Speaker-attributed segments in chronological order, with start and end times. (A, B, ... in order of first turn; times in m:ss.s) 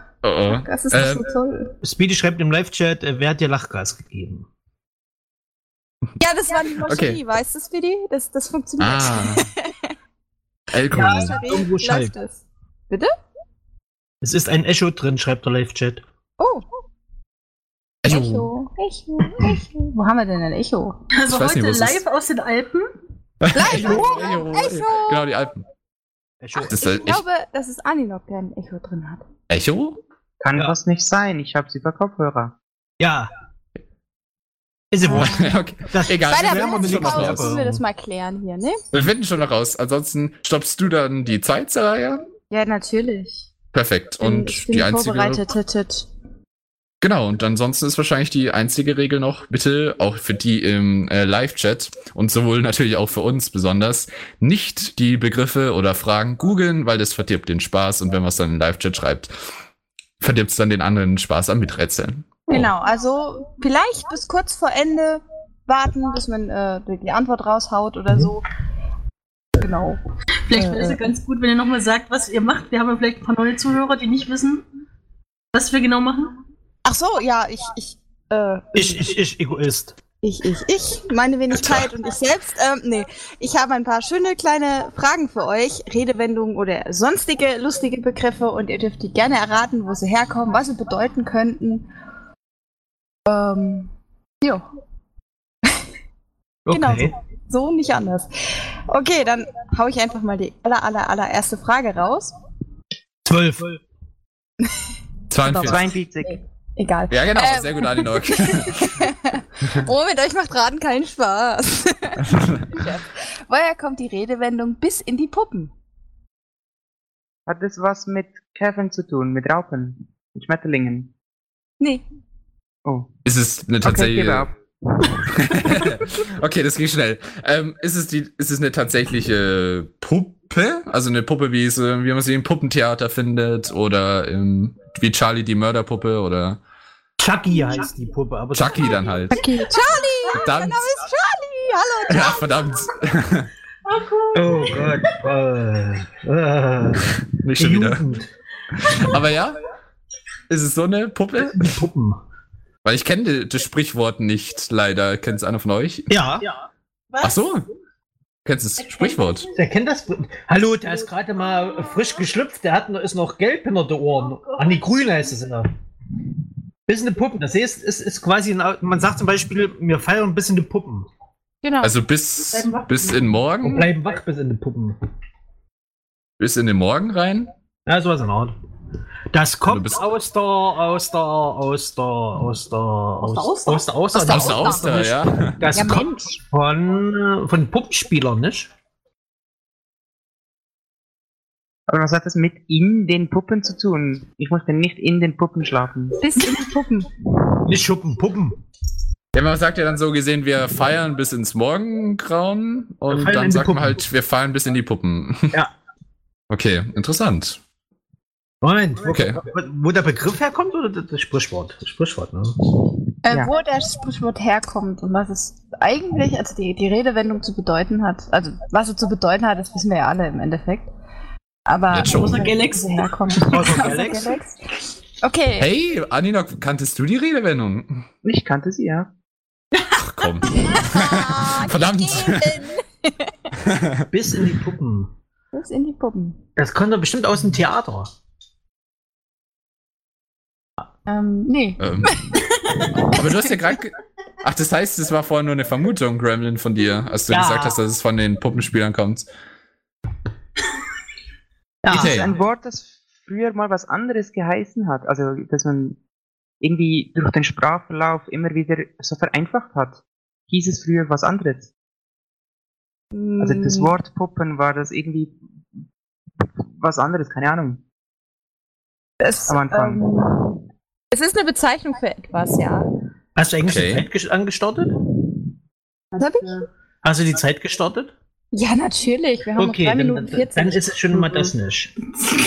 0:00.2-0:01.3 A
0:00.5-0:01.7 B
0:01.8-0:04.5 C
0:06.2-0:09.8 B
0:06.8-0:07.2 A
0:08.8-0:09.4 A
0:10.7-0:11.4 A
0:10.9-0:13.1 B
0:10.9-0:12.1 C
0:14.2-0:16.0 C
0:16.4-0:16.6 B
0:18.0-0:18.5 A
0:18.1-0:21.0 B
0:21.2-0:22.9 D
0:21.3-0:22.0 A
0:23.4-0:25.6 A
0:23.5-0:25.2 B
0:23.7-0:24.4 C
0:26.4-0:26.8 C
0:26.6-0:27.2 A
0:26.6-0:29.2 B
0:29.5-0:30.0 A
0:30.4-0:32.6 E
0:33.0-0:33.3 C
0:34.9-0:37.8 C
0:35.1-0:37.5 A
0:36.3-0:38.8 B
0:38.9-0:42.2 A
0:42.5-0:43.5 B
0:43.7-0:45.5 A
0:44.2-0:46.1 B
0:47.0-0:59.3 A
1:00.2-1:02.4 A
1:02.5-1:08.4 B
1:09.6-1:10.0 B
1:10.5-1:14.6 D
1:10.5-1:11.0 B
1:15.5-1:16.3 D
1:16.8-1:19.1 B
1:18.7-1:20.0 C
1:20.2-1:31.9 B
1:33.3-1:33.9 B
1:36.7-1:37.1 C
1:36.7-1:42.3 B
1:43.2-1:43.8 C
1:45.3-1:45.9 A
1:45.4-1:55.7 B
1:45.6-1:46.4 E
1:47.1-1:49.0 A
1:52.2-1:52.8 A
1:57.5-2:01.1 E
2:02.8-2:03.1 E
2:03.2-2:04.5 A
2:03.8-2:04.5 E
2:05.3-2:16.6 A
2:17.2-2:19.2 C
2:18.5-2:19.4 A
2:19.3-2:22.4 B
2:20.3-2:20.8 A
2:22.1-2:23.5 A
2:23.9-2:25.1 D
2:24.3-2:28.3 C
2:27.4-2:28.0 A
2:28.8-2:29.6 A
2:30.5-2:31.8 A
2:31.4-2:32.2 C
2:32.8-2:36.1 A
2:36.1-2:36.4 C
2:37.2-2:37.7 A
2:38.4-2:39.5 A
2:38.9-2:39.5 D
2:39.6-2:45.7 C
2:44.5-2:45.0 D
2:46.9-2:51.1 C
2:51.6-2:51.9 B
2:51.8-2:53.9 A
2:52.5-2:53.3 D
2:53.6-2:55.0 C
2:56.4-2:57.5 A
2:57.9-2:58.6 C
2:59.3-3:08.7 C
2:59.7-3:00.1 A
3:03.2-3:03.9 D
3:04.2-3:04.6 B
3:04.2-3:05.9 A
3:05.7-3:06.0 B
3:11.9-3:16.2 E
3:16.2-3:17.1 B
3:17.6-3:18.6 C
3:19.3-3:25.6 A
3:23.1-3:24.0 C
3:26.5-3:27.6 A
3:28.6-3:32.6 C
3:29.1-3:29.4 A
3:33.2-3:40.9 B
3:41.7-3:44.6 B
3:41.9-3:42.4 A
3:42.1-3:43.7 D
3:43.4-3:44.4 C
3:45.2-3:45.7 B
3:45.6-3:48.1 A
3:48.2-3:49.1 E
3:49.9-3:52.6 A
3:50.5-3:53.5 B
3:53.6-3:54.1 A
3:54.1-3:55.1 C
3:55.5-3:56.4 B
3:56.6-3:58.1 C
4:01.1-4:02.4 B
4:01.8-4:02.2 A
4:03.0-4:09.3 A
4:07.3-4:07.8 C
4:11.8-4:12.4 C
4:11.9-4:12.3 A
4:11.9-4:16.0 E
4:16.6-4:21.7 E
4:23.1-4:23.9 B
4:23.4-4:25.4 E
4:26.8-4:27.8 E
4:29.2-4:32.9 B
4:29.5-4:30.1 E
4:33.4-4:34.9 C
4:33.6-4:34.0 A
4:36.1-4:36.6 D
4:36.2-4:36.6 B
4:37.0-4:38.1 C
4:38.5-4:41.2 B
4:39.6-4:41.9 C